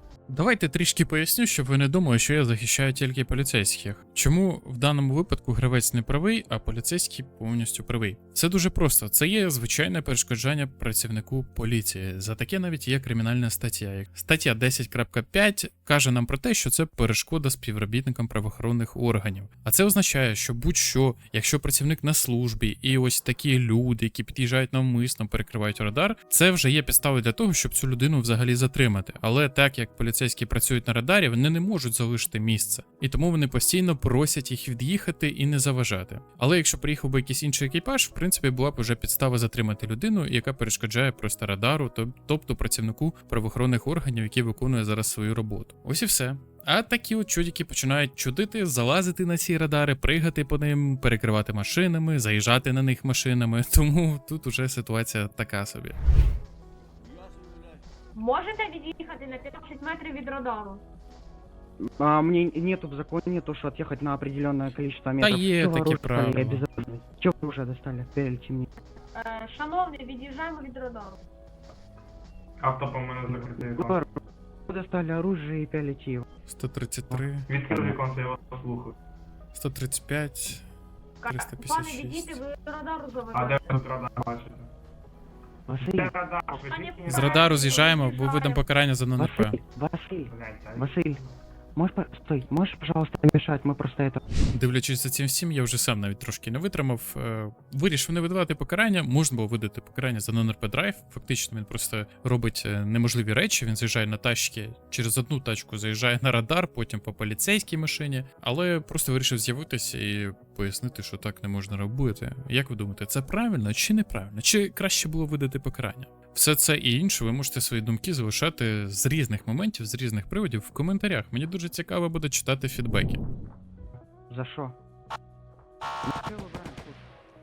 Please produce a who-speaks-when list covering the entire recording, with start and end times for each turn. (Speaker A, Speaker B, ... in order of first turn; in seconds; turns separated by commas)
Speaker A: 0.3-56.0, Speaker B: 58.1-60.8, Speaker C: 61.8-68.7, Speaker A: 65.2-66.7, Speaker B: 69.2-71.2, Speaker D: 72.6-74.0, Speaker C: 73.3-76.3, Speaker A: 76.5-77.5, Speaker D: 77.5-79.0, Speaker A: 79.5-80.7, Speaker B: 81.2-83.8, Speaker A: 81.3-82.4, Speaker D: 83.3-84.7, Speaker C: 85.7-86.1, Speaker D: 85.8-87.8, Speaker B: 86.5-88.6, Speaker A: 87.1-89.6, Speaker C: 89.2-91.2, Speaker D: 90.3-91.3, Speaker C: 91.8-94.2, Speaker A: 94.5-123.2, Speaker C: 124.3-124.8, Speaker C: 126.1-127.1